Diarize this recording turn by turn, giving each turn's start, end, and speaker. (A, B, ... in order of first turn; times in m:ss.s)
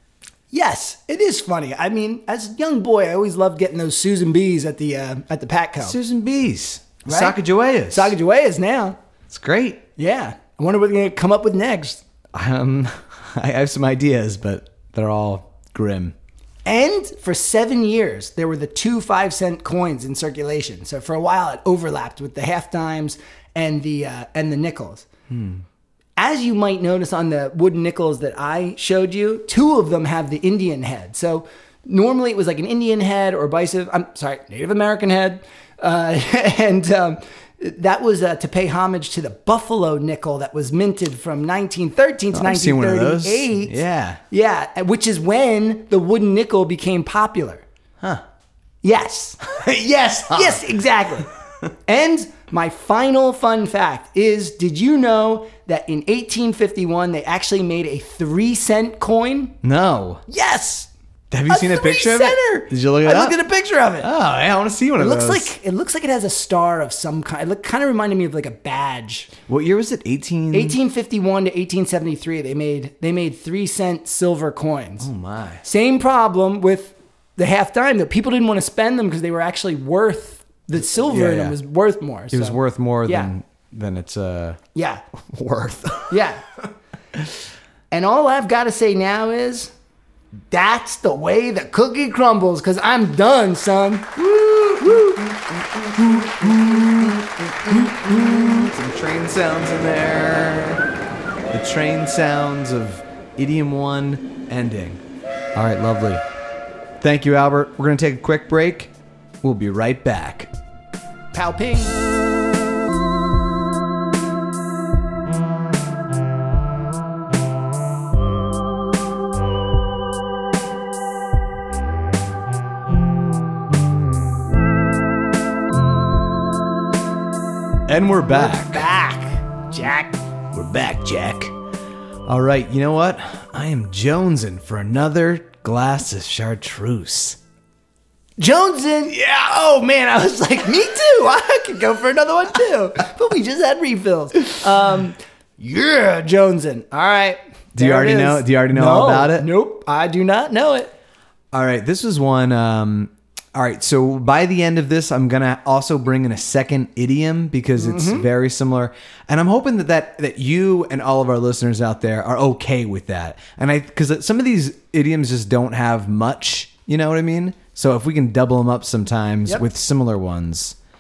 0:00.5-0:06.0 A
0:05.8-0:08.1 B
0:07.0-0:07.4 A
0:07.9-0:09.0 A
0:09.3-0:09.8 B
0:10.0-0:12.0 A
0:12.3-0:16.2 B
0:16.6-0:25.1 A
0:25.3-0:25.6 B
0:26.2-0:47.6 A
0:42.3-0:44.2 B
0:48.8-0:51.3 A
0:49.5-0:50.7 B
0:51.9-0:59.6 A
0:59.6-1:00.2 B
1:00.3-1:00.9 A
1:01.3-1:03.4 B
1:01.5-1:04.1 A
1:04.0-1:05.5 B
1:05.0-1:09.3 A
1:09.5-1:10.8 B
1:10.5-1:15.1 A
1:15.0-1:15.6 B
1:15.6-1:23.3 A
1:20.9-1:21.6 B
1:22.3-1:24.6 B
1:24.8-1:25.0 A
1:25.3-1:26.2 B
1:26.1-1:26.4 A
1:27.9-1:29.7 A
1:30.5-1:35.2 A
1:34.4-1:40.8 B
1:36.4-1:37.1 A
1:41.5-1:45.0 B
1:45.6-1:46.2 B
1:47.0-1:50.5 B
1:51.3-1:52.0 A
2:07.9-2:08.9 B
2:08.3-2:10.2 A
2:10.5-2:11.5 B
2:12.3-2:17.4 B
2:18.4-2:30.9 A
2:27.8-2:29.5 B
2:31.5-2:50.8 B
2:37.8-2:38.3 A